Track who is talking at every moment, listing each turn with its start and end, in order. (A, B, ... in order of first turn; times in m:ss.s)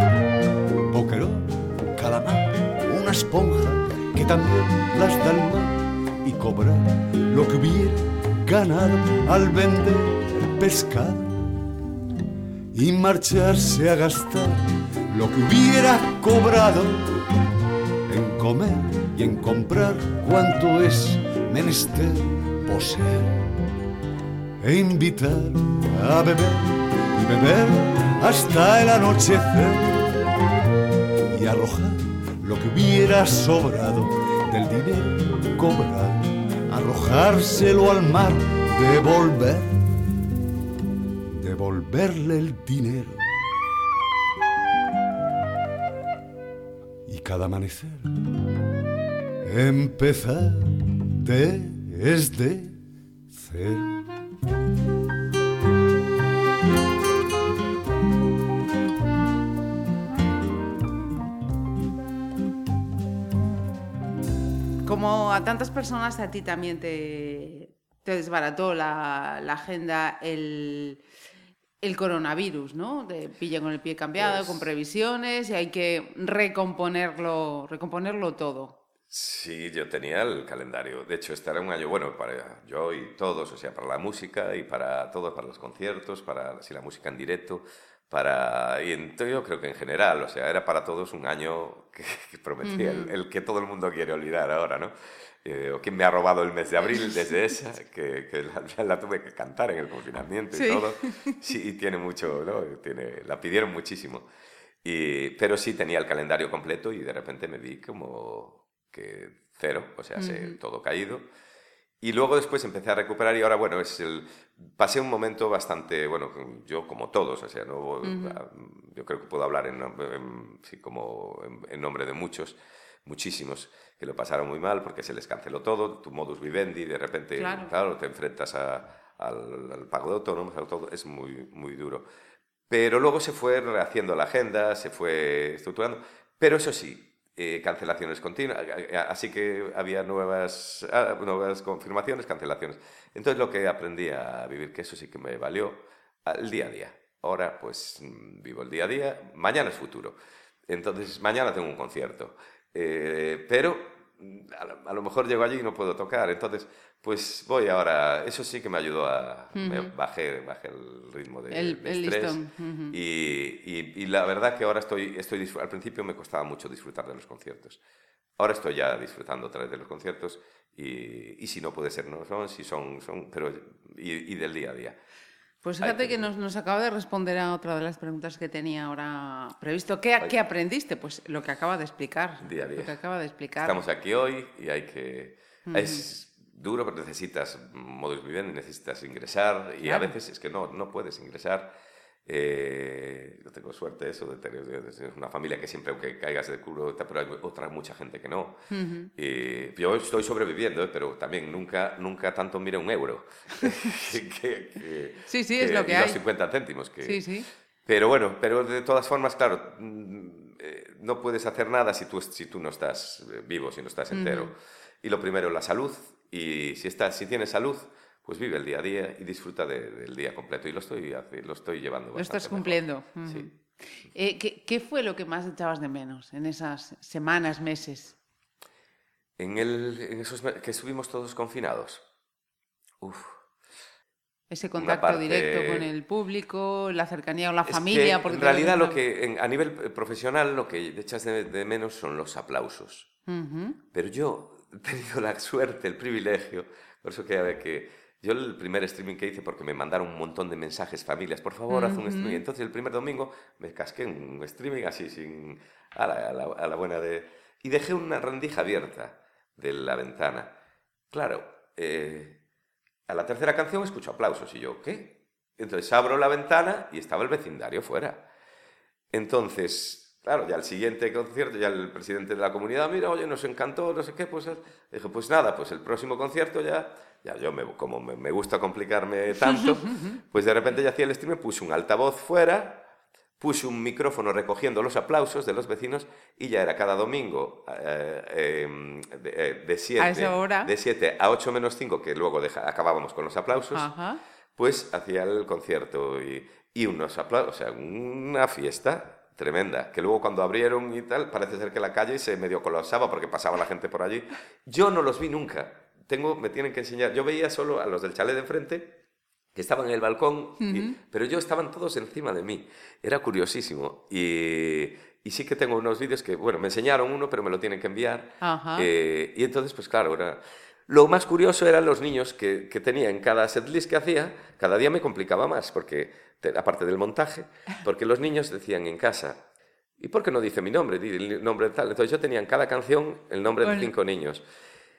0:00.9-0:11.5 A
0:12.7-0:17.2 A
0:18.1-0:23.5 A
0:24.6-0:30.1 A
0:31.3-0:39.9 A
0:41.3-0:43.3 A
0:47.0-0:48.1 A
0:49.4-0:52.8 A
0:53.3-0:53.9 A
1:04.8-1:11.0 B
1:11.8-1:18.8 B
1:14.2-1:14.7 C
1:19.1-1:34.9 C
1:32.6-1:33.1 B
1:35.4-1:44.2 C
1:40.5-1:41.4 B
1:44.8-1:51.2 C
1:50.2-1:50.6 B
1:52.0-2:12.0 C
1:58.0-1:58.4 B
2:07.4-2:07.7 B
2:12.7-2:30.2 C
2:30.7-2:47.8 C
2:39.6-2:39.9 B
2:41.5-2:43.0 B
2:48.4-2:55.0 C
2:55.6-3:03.8 B
2:55.8-2:56.3 C
3:02.4-3:03.0 C
3:03.6-3:11.7 C
3:05.7-3:06.0 B
3:09.8-3:10.1 B
3:12.2-3:18.6 C
3:18.7-3:19.1 B
3:19.2-3:27.3 C
3:25.3-3:26.2 B
3:27.0-3:27.5 B
3:27.8-3:43.5 C
3:34.1-3:34.5 B
3:42.2-3:43.5 B
3:44.1-3:48.2 B
3:49.4-3:52.0 C
3:53.0-3:53.4 C
3:54.5-3:59.0 B
3:54.8-3:55.9 C
3:57.6-4:03.1 C
4:03.3-4:03.8 B
4:03.9-4:20.5 C
4:11.7-4:12.4 B
4:21.1-4:22.4 C
4:23.1-4:28.2 C
4:29.1-4:42.8 C
4:43.4-4:53.9 C
4:50.0-4:50.7 B
4:53.7-4:54.2 B
4:54.6-5:09.0 C
5:09.5-5:29.4 C
5:10.6-5:11.0 B
5:18.4-5:18.9 B
5:30.0-5:34.4 C
5:33.6-5:33.9 B